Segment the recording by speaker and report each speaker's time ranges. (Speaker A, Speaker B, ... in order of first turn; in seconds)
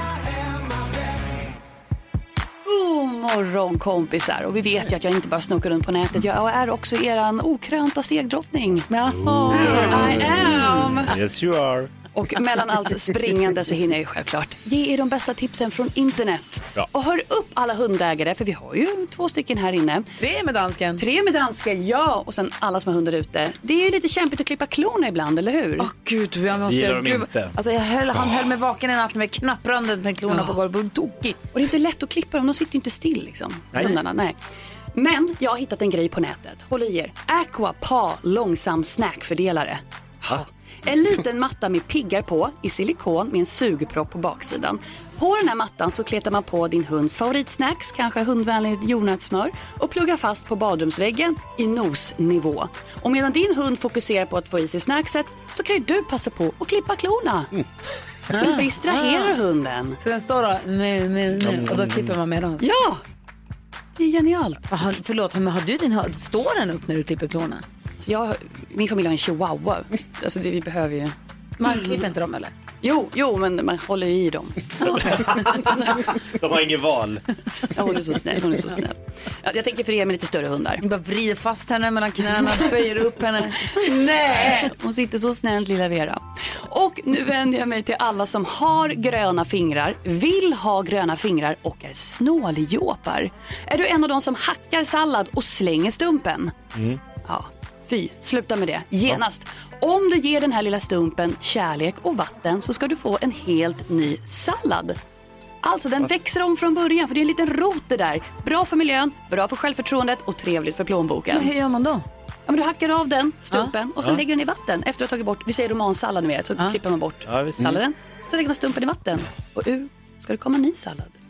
Speaker A: 2.6-8.9, 9.6-11.1, 12.2-20.1, 21.0-25.9, 31.5-34.4, 35.0-57.5, 58.3-60.0, 62.6-63.0, 64.0-64.7, 68.0-71.1, 72.8-76.0, 77.7-80.8, 83.8-96.6, 97.2-105.0, 105.6-111.5, 112.5-121.2
Speaker B: 8.9-10.9, 20.2-21.0, 25.8-31.4, 58.3-59.4, 60.0-62.7, 64.7-67.6, 71.6-72.5, 80.8-83.9, 111.3-112.0
Speaker C: 9.2-11.9, 26.6-27.5, 33.7-34.0, 76.4-77.2, 117.3-117.8